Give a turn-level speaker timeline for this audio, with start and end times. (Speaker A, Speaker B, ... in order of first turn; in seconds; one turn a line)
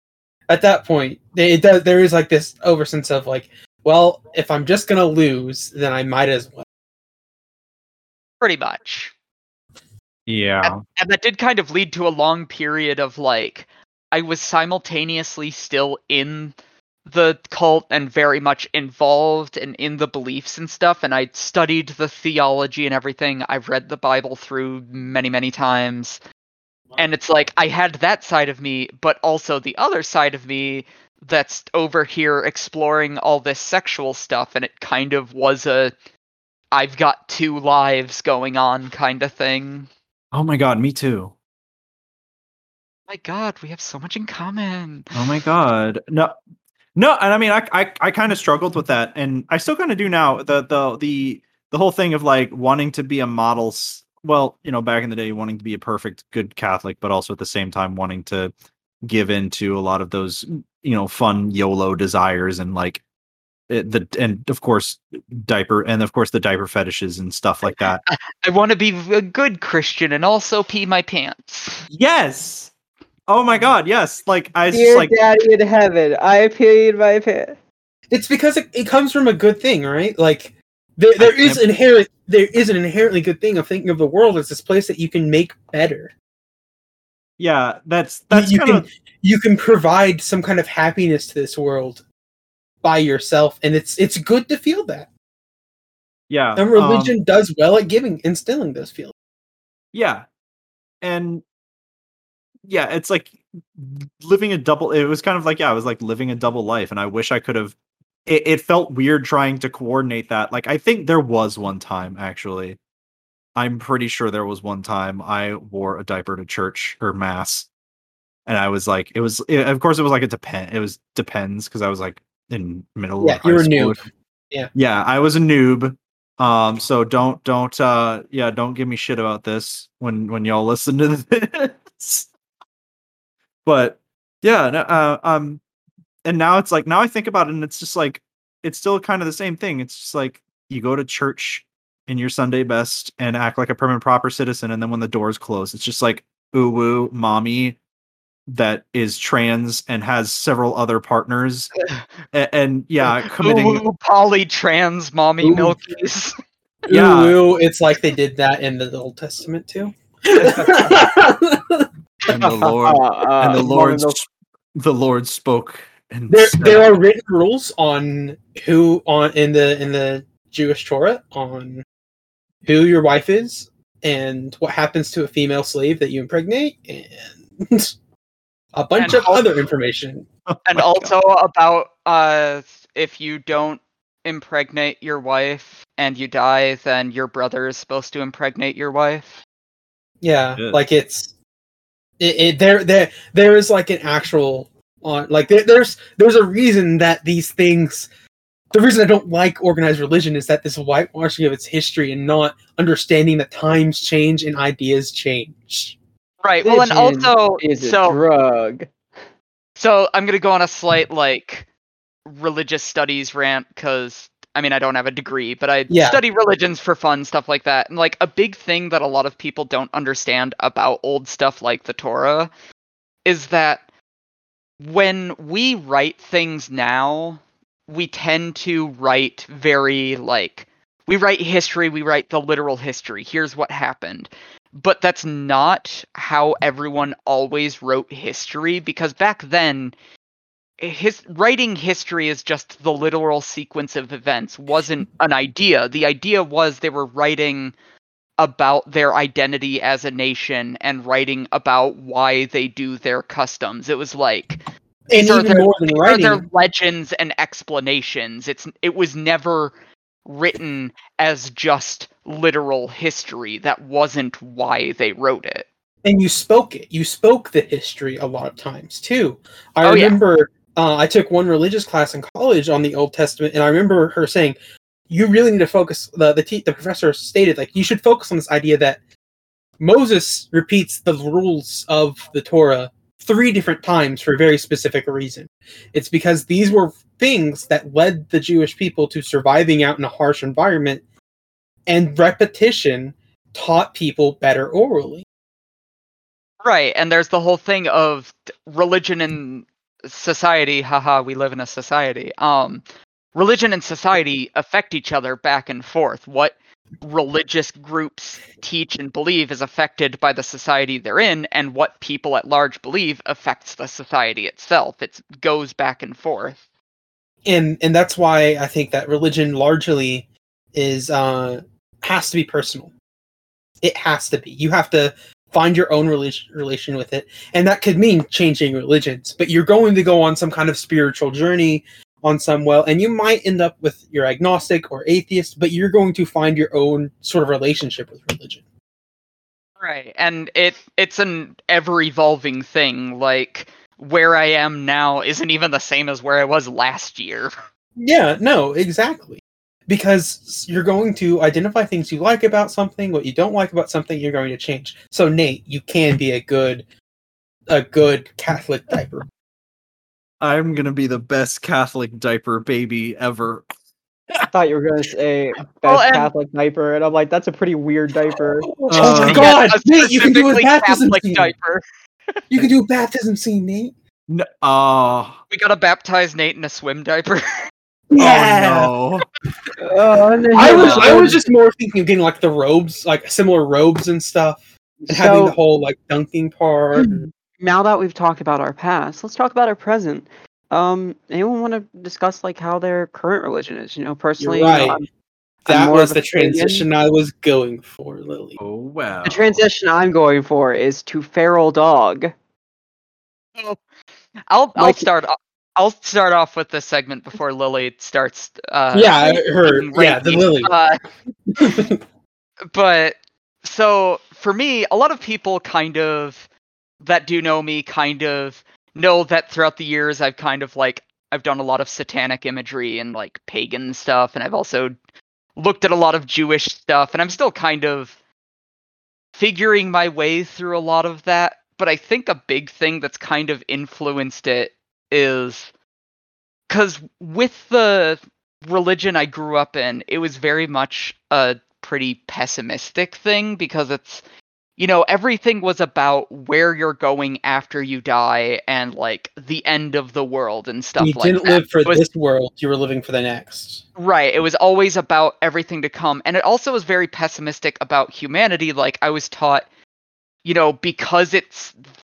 Speaker A: 0.5-6.6
Speaker B: 8.4-9.1
Speaker C: 10.3-10.8
Speaker B: 10.6-26.2
Speaker B: 27.0-35.9
Speaker B: 36.7-39.9
Speaker C: 40.3-41.3
Speaker B: 43.1-45.3
Speaker C: 45.1-46.3
Speaker C: 46.9-58.5
Speaker C: 59.0-63.0
Speaker C: 63.7-68.0
Speaker B: 68.4-71.8
Speaker C: 71.9-72.7
Speaker C: 73.3-75.1
Speaker D: 74.7-77.6
Speaker A: 78.1-86.1
Speaker C: 81.2-81.6
Speaker C: 87.4-88.9
Speaker A: 88.3-92.0
Speaker A: 92.8-95.1
Speaker C: 96.3-97.1
Speaker A: 96.5-99.1
Speaker C: 99.9-100.2
Speaker C: 101.0-101.4
Speaker C: 102.7-112.8
Speaker C: 113.5-117.7
Speaker C: 118.5-124.0
Speaker A: 123.2-124.7
Speaker C: 124.7-132.3
Speaker C: 133.6-135.6
Speaker C: 136.2-147.8
Speaker C: 148.5-151.7
Speaker C: 152.3-153.8
Speaker B: 153.2-156.3
Speaker A: 155.4-155.8
Speaker A: 156.9-161.9
Speaker C: 156.9-157.4
Speaker D: 160.4-160.8
Speaker C: 162.3-167.0
Speaker D: 162.4-164.2
Speaker A: 166.3-171.8
Speaker A: 172.7-177.9
Speaker A: 178.7-180.2
Speaker B: 178.9-179.4
Speaker C: 180.5-181.1
Speaker B: 180.7-189.4
Speaker A: 190.2-191.3
Speaker A: 192.2-198.1
Speaker A: 198.7-206.0
Speaker B: 206.4-208.2
Speaker D: 206.6-208.9
Speaker B: 209.8-211.7
Speaker B: 212.2-222.5
Speaker A: 215.9-216.2
Speaker B: 223.2-223.8
Speaker B: 224.8-239.9
Speaker B: 240.8-247.7
Speaker B: 248.4-254.6
Speaker A: 255.1-256.4
Speaker B: 255.2-259.7
Speaker B: 260.2-265.7
Speaker A: 266.0-274.6
Speaker B: 269.8-270.2
Speaker A: 275.1-279.0
Speaker A: 279.8-291.0
Speaker A: 291.9-295.2
Speaker B: 296.6-302.8
Speaker B: 303.3-316.6
Speaker A: 317.4-322.9
Speaker A: 323.8-338.6
Speaker B: 339.8-347.5
Speaker A: 348.0-356.8
Speaker A: 357.7-359.3
Speaker C: 360.4-363.7
Speaker D: 364.5-368.7
Speaker B: 365.9-366.3
Speaker A: 368.6-371.5
Speaker C: 368.9-369.4
Speaker B: 369.0-371.8
Speaker A: 372.5-373.9
Speaker C: 374.3-375.4
Speaker B: 375.5-377.4
Speaker A: 378.1-378.9
Speaker C: 378.2-379.2
Speaker D: 379.8-381.4
Speaker A: 380.5-387.2
Speaker C: 380.8-381.2
Speaker D: 385.0-385.6
Speaker D: 386.9-395.1
Speaker A: 394.4-395.0
Speaker A: 395.6-398.6
Speaker D: 395.7-396.9
Speaker C: 398.6-399.6
Speaker D: 399.2-402.3
Speaker B: 404.5-411.0
Speaker D: 404.8-405.1
Speaker A: 408.9-410.7
Speaker A: 411.5-412.0
Speaker B: 412.7-416.5
Speaker B: 417.0-424.9
Speaker B: 425.6-428.1
Speaker B: 429.3-435.7
Speaker B: 436.7-444.2
Speaker B: 444.8-452.0
Speaker A: 451.0-453.8
Speaker B: 454.0-459.6
Speaker B: 460.4-461.8